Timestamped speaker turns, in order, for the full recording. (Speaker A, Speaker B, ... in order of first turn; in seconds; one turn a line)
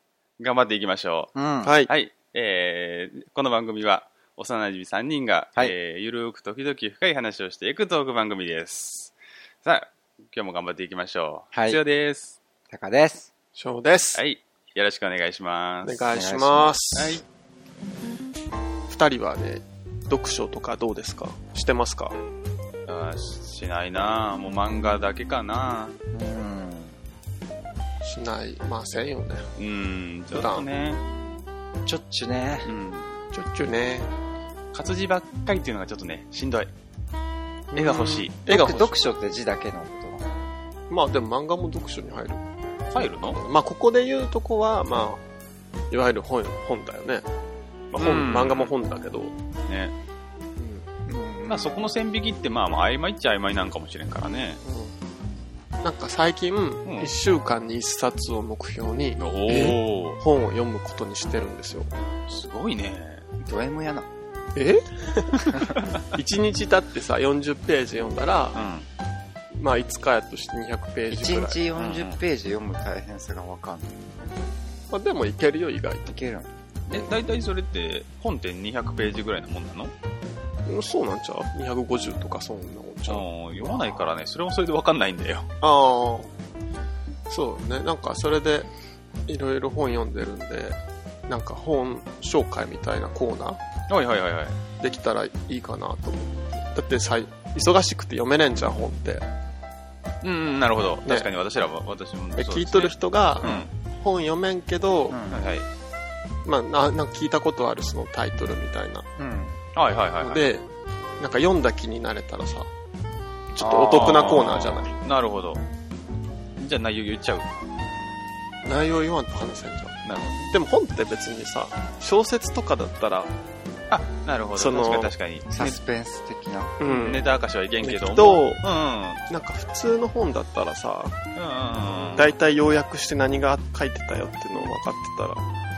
Speaker A: 0.4-9.1
Speaker B: 1.3-1.7
Speaker C: 1.6-1.9
Speaker A: 9.6-12.4
Speaker B: 11.5-11.8
Speaker B: 12.7-13.3
Speaker C: 13.6-14.2
Speaker A: 14.1-16.1
Speaker C: 15.8-17.2
Speaker B: 16.1-16.7
Speaker A: 16.9-17.2
Speaker C: 18.9-22.2
Speaker A: 22.9-25.9
Speaker B: 26.1-26.9
Speaker C: 28.0-29.5
Speaker A: 29.6-31.0
Speaker C: 30.3-30.7
Speaker B: 31.8-32.7
Speaker A: 32.6-33.2
Speaker C: 33.3-34.1
Speaker A: 34.7-36.7
Speaker C: 37.7-38.9
Speaker A: 37.7-38.5
Speaker B: 38.5-40.2
Speaker C: 40.9-42.4
Speaker A: 42.9-43.4
Speaker C: 43.0-45.2
Speaker C: 45.9-47.3
Speaker A: 47.9-48.7
Speaker C: 48.0-49.3
Speaker A: 49.7-49.9
Speaker C: 50.5-50.9
Speaker B: 51.0-51.9
Speaker A: 51.5-54.6
Speaker C: 54.6-54.9
Speaker C: 55.8-61.9
Speaker A: 56.9-57.1
Speaker A: 59.2-60.2
Speaker A: 62.3-63.2
Speaker B: 63.4-64.1
Speaker C: 64.5-68.7
Speaker A: 68.5-68.8
Speaker C: 69.5-71.6
Speaker B: 71.1-74.1
Speaker A: 71.8-72.2
Speaker C: 74.9-76.2
Speaker B: 76.1-76.5
Speaker A: 76.9-79.9
Speaker C: 80.7-84.0
Speaker A: 83.1-85.5
Speaker C: 85.6-86.3
Speaker C: 87.3-88.7
Speaker C: 89.3-90.8
Speaker C: 91.3-93.6
Speaker A: 93.9-94.6
Speaker C: 94.8-99.3
Speaker A: 100.2-103.7
Speaker C: 102.3-105.2
Speaker B: 105.1-105.4
Speaker A: 105.3-105.7
Speaker C: 106.4-109.1
Speaker B: 109.2-109.6
Speaker A: 109.7-110.5
Speaker C: 110.2-110.7
Speaker C: 111.2-112.7
Speaker C: 113.5-114.9
Speaker A: 113.6-115.6
Speaker A: 116.6-117.5
Speaker C: 118.6-120.0
Speaker A: 120.0-120.5
Speaker C: 120.5-123.3
Speaker A: 123.9-125.8
Speaker C: 124.5-125.1
Speaker B: 125.5-126.8
Speaker C: 126.8-127.3
Speaker A: 126.8-129.2
Speaker C: 127.8-128.6
Speaker C: 129.3-131.2
Speaker A: 131.3-132.3
Speaker C: 132.2-135.4